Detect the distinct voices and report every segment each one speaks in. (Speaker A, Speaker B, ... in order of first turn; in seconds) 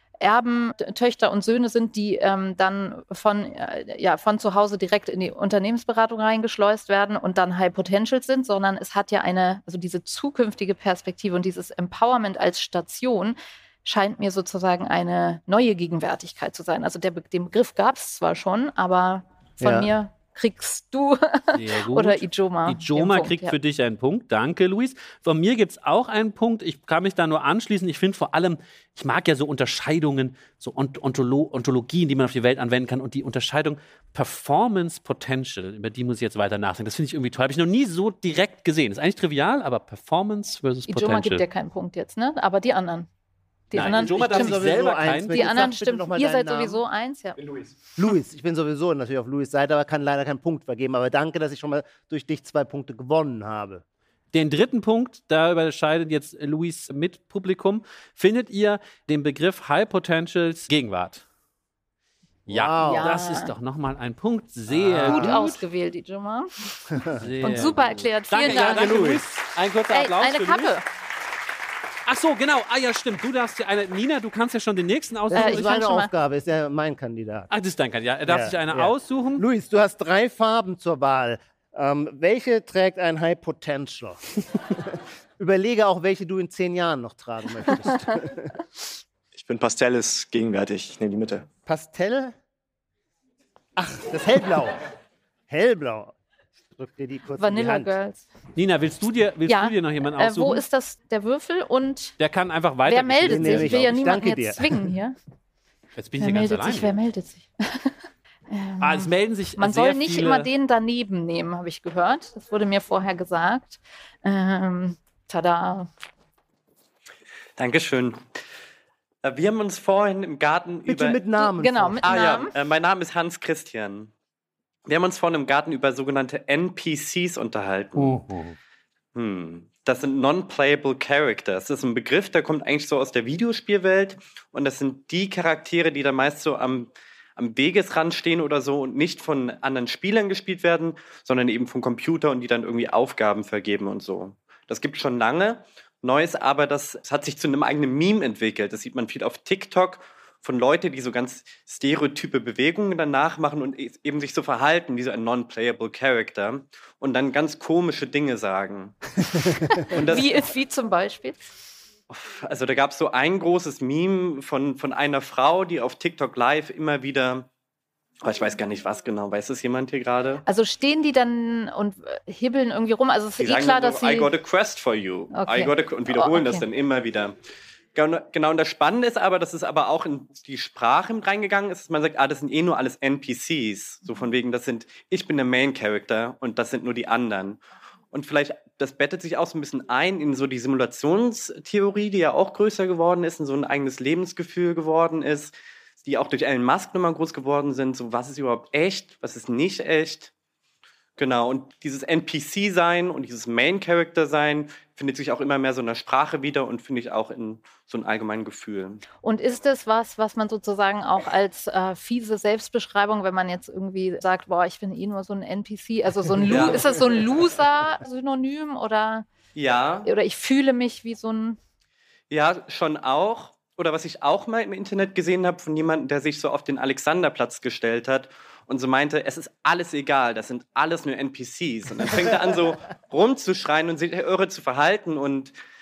Speaker A: 0.2-23.6, 40.9-43.1, 43.7-44.6, 45.3-47.4, 62.8-63.5, 65.1-69.1, 69.9-70.8, 75.3-76.1, 97.4-98.3, 99.5-102.2, 102.8-105.1, 106.2-115.9, 121.4-122.5, 159.5-161.5, 170.4-174.3, 175.3-176.6, 209.2-219.3, 220.0-221.6
Speaker B: 19.6-19.9, 43.7-46.8, 48.0-53.8, 62.5-63.2, 64.7-65.4, 66.9-67.3, 68.4-69.2, 75.3-77.5, 78.2-88.5, 91.7-92.3, 93.8-94.7, 95.5-96.1, 96.7-97.9, 103.2-104.8, 120.8-122.5
Speaker C: 21.5-41.4, 43.7-45.5, 54.3-61.2, 62.5-65.6, 67.2-70.8, 72.0-75.7, 77.5-79.4, 98.5-100.6, 102.2-103.9, 106.0-107.0, 108.8-110.5, 128.0-128.6
Speaker D: 47.4-47.8, 89.3-91.5
Speaker E: 117.6-118.2, 119.2-121.2, 122.0-124.1, 124.8-128.2, 129.1-158.9, 159.9-160.3, 162.1-167.5, 168.2-170.4, 173.4-177.3, 177.9-187.6, 188.1-200.3, 201.2-209.0, 216.4-216.8, 219.6-220.1, 222.3-235.5